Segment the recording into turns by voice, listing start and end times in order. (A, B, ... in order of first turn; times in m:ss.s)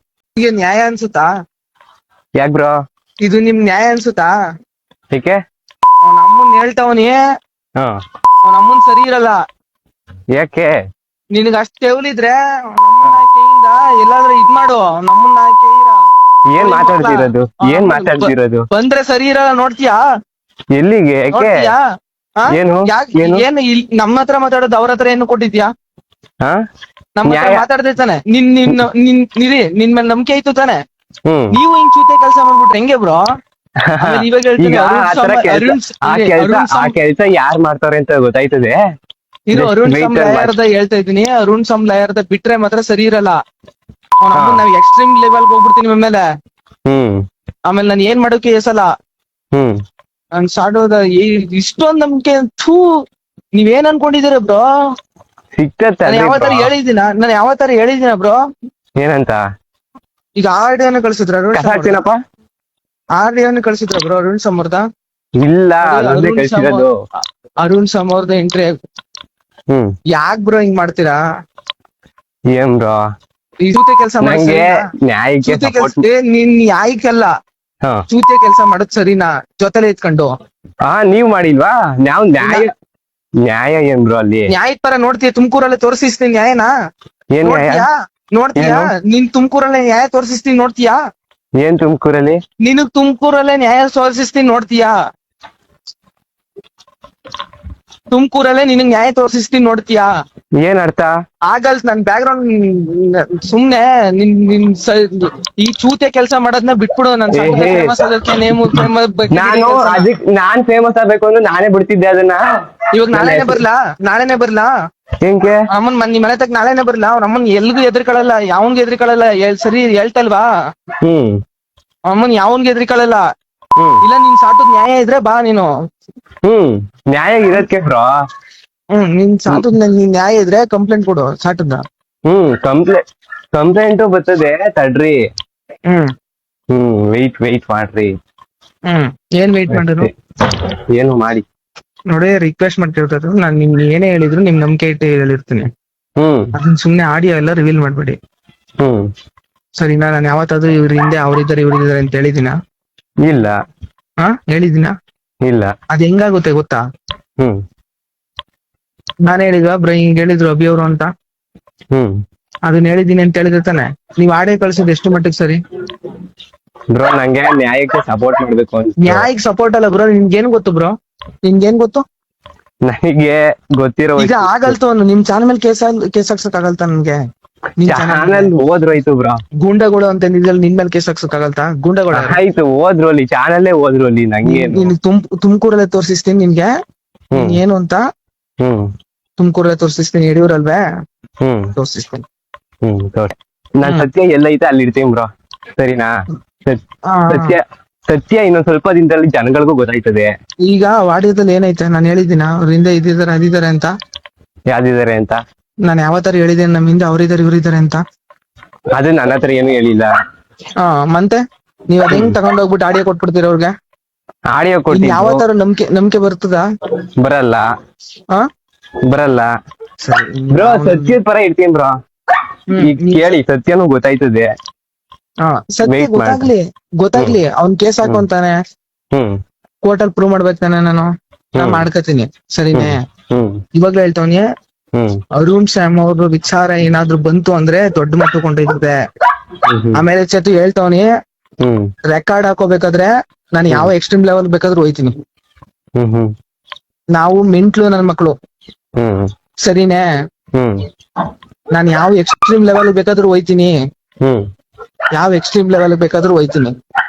0:00.4-0:01.3 A
0:02.4-0:02.7 B
0:03.2-0:04.3 A
0:05.1-0:05.4 B
0:06.0-0:07.2 A
0:08.4-0:09.4 A
0:10.4-0:10.7 B
0:11.3-0:16.0 A
0:16.5-0:18.7 B
0:16.6-0:20.0 A
0:20.8-0:21.6 B
0:21.3-0:21.8 A
0:22.4-0:25.7 A
0:22.5-0:23.4 B
0:27.2-0:30.8 A
0:27.2-0:27.6 B
0:31.3-0:31.6 B
0:31.5-0:33.2 A
0:33.9-0:38.8 B
0:34.0-0:36.9 A
0:39.5-0:43.4 A
0:39.5-0:40.6 B
0:44.2-0:46.2 A
0:44.3-0:44.6 B
0:46.9-0:47.2 B
0:47.7-0:48.9 A
0:50.4-0:52.9 A
0:53.6-0:54.7 A
0:55.6-0:56.7 B
0:56.1-0:58.4 A
0:59.0-0:59.4 B
1:00.4-1:02.0 A
1:01.6-1:02.2 B
1:03.2-1:04.8 A
1:05.4-1:07.0 B
1:05.8-1:06.8 A
1:07.6-1:08.7 A
1:10.1-1:11.2 A
1:12.5-1:13.0 B
1:13.7-1:14.9 A
1:14.2-1:16.0 B
1:15.4-1:17.3 A
1:18.1-1:20.3 A
1:20.9-1:22.7 B
1:22.4-1:22.7 A
1:23.4-1:24.5 B
1:24.5-1:26.7 A
1:27.4-1:27.9 B
1:27.4-1:31.0 A
1:28.6-1:28.9 B
1:31.6-1:32.4 B
1:32.6-1:34.9 A
1:38.1-1:40.1 A
1:40.6-1:41.1 B
1:41.5-1:50.1 A
1:47.3-1:52.4 B
1:52.9-1:54.7 A
1:53.1-1:53.6 B
1:55.2-1:55.6 B
1:55.7-2:00.4 A
2:01.0-2:01.4 B
2:02.1-2:03.2 A
2:04.0-2:05.7 A
2:06.4-2:08.1 B
2:08.9-2:11.8 A
2:12.3-2:13.0 B
2:13.5-2:15.2 B
2:16.7-2:18.1 B
2:18.9-2:20.1 A
2:19.7-2:21.4 B
2:22.1-2:25.7 A
2:26.2-2:26.5 B
2:26.6-2:28.2 A
2:28.8-2:29.1 B
2:29.8-2:32.6 A
2:33.2-2:33.6 B
2:34.2-2:34.9 A
2:35.4-2:35.7 B
2:35.9-2:36.8 A
2:39.3-2:41.1 A
2:42.7-2:45.6 A
2:46.9-2:49.3 B
2:49.0-2:52.0 A
2:52.8-2:54.8 B
2:54.2-2:57.2 A
2:57.8-2:58.5 A
2:57.9-2:59.4 B
2:59.6-3:02.4 A
3:02.1-3:04.9 B
3:04.4-3:06.7 A
3:07.3-3:07.6 B
3:07.4-3:08.0 A
3:08.6-3:08.9 B
3:09.4-3:10.8 A
3:11.4-3:11.7 B
3:11.8-3:12.2 A
3:12.8-3:15.3 B
3:15.8-3:16.1 B
3:16.7-3:20.3 B
3:17.1-3:17.6 A
3:20.7-3:23.9 A
3:24.7-3:25.4 B
3:25.8-3:28.0 A
3:29.0-3:30.1 B
3:30.8-3:33.7 A
3:32.1-3:32.4 B
3:34.5-3:35.4 B
3:34.9-3:36.6 A
3:37.2-3:37.6 B
3:39.1-3:39.5 B
3:40.0-3:41.2 A
3:40.5-3:42.0 B
3:42.7-3:43.3 A
3:42.8-3:44.5 B
3:45.4-3:48.6 A
3:45.9-3:46.5 B
3:49.8-3:53.0 A
3:51.6-3:51.9 B
3:52.7-3:53.6 B
3:53.8-3:54.4 A
3:54.9-3:55.2 B
3:55.4-3:59.0 A
3:59.7-4:00.0 B
4:00.0-4:01.1 A
4:01.6-4:01.9 B
4:02.1-4:05.1 A
4:06.0-4:06.3 B
4:07.2-4:08.3 A
4:09.0-4:09.3 B
4:09.6-4:10.0 A
4:10.6-4:10.8 B
4:11.7-4:13.8 A
4:15.1-4:16.7 A